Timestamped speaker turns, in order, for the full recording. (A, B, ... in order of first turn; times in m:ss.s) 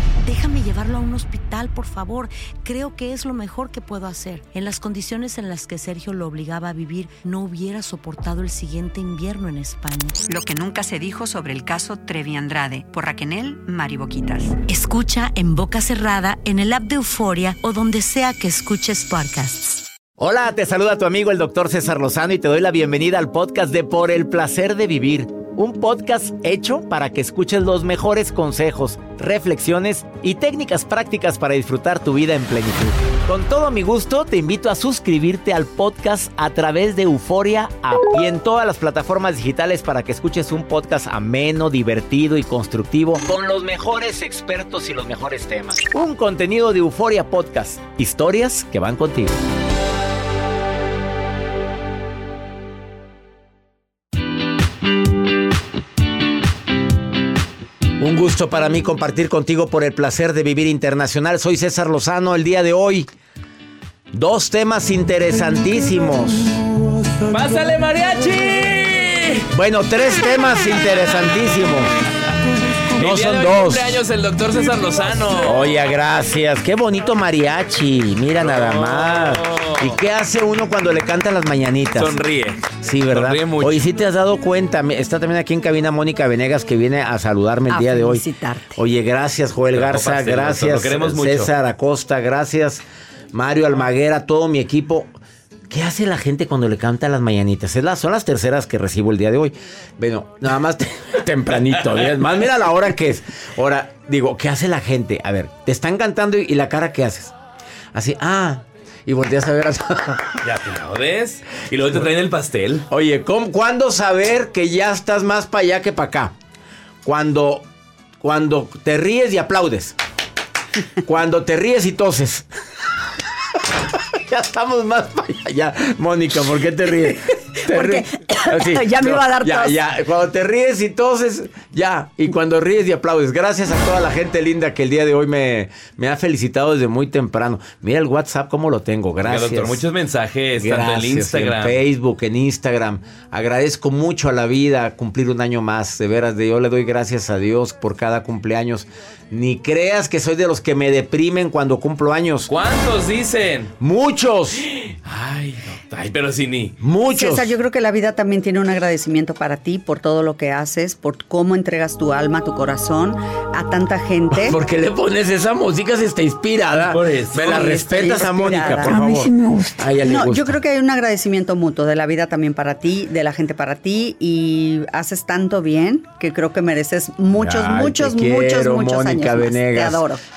0:00.2-0:10.2 A
0:10.2-0:14.6 B
0:14.7-0:19.8 A
0:20.2-0:49.4 C
0:58.0-1:03.1 C
1:04.1-1:06.7 C
1:07.3-1:09.5 D
1:09.5-1:11.9 C
1:12.9-1:15.6 D
1:13.0-1:13.9 C
1:15.4-1:35.1 C
1:18.4-1:19.9 D
1:21.9-1:23.9 D
1:27.7-1:28.8 E
1:29.7-1:31.5 D
1:35.7-1:47.3 C
1:47.9-1:50.4 C
1:50.4-1:52.8 D
1:52.9-1:56.3 C
1:57.0-1:57.6 C
1:58.2-2:00.0 C
2:01.0-2:02.4 C
2:04.1-2:19.8 C
2:07.6-2:09.8 E
2:19.2-2:21.8 D
2:20.6-2:32.5 C
2:32.5-2:33.7 D
2:33.8-2:34.7 C
2:35.0-2:36.7 D
2:36.8-2:37.5 C
2:37.1-2:44.6 E
2:44.3-2:50.5 C
2:46.9-2:47.8 D
2:47.4-2:49.1 E
2:50.0-3:00.2 E
2:57.3-3:00.0 C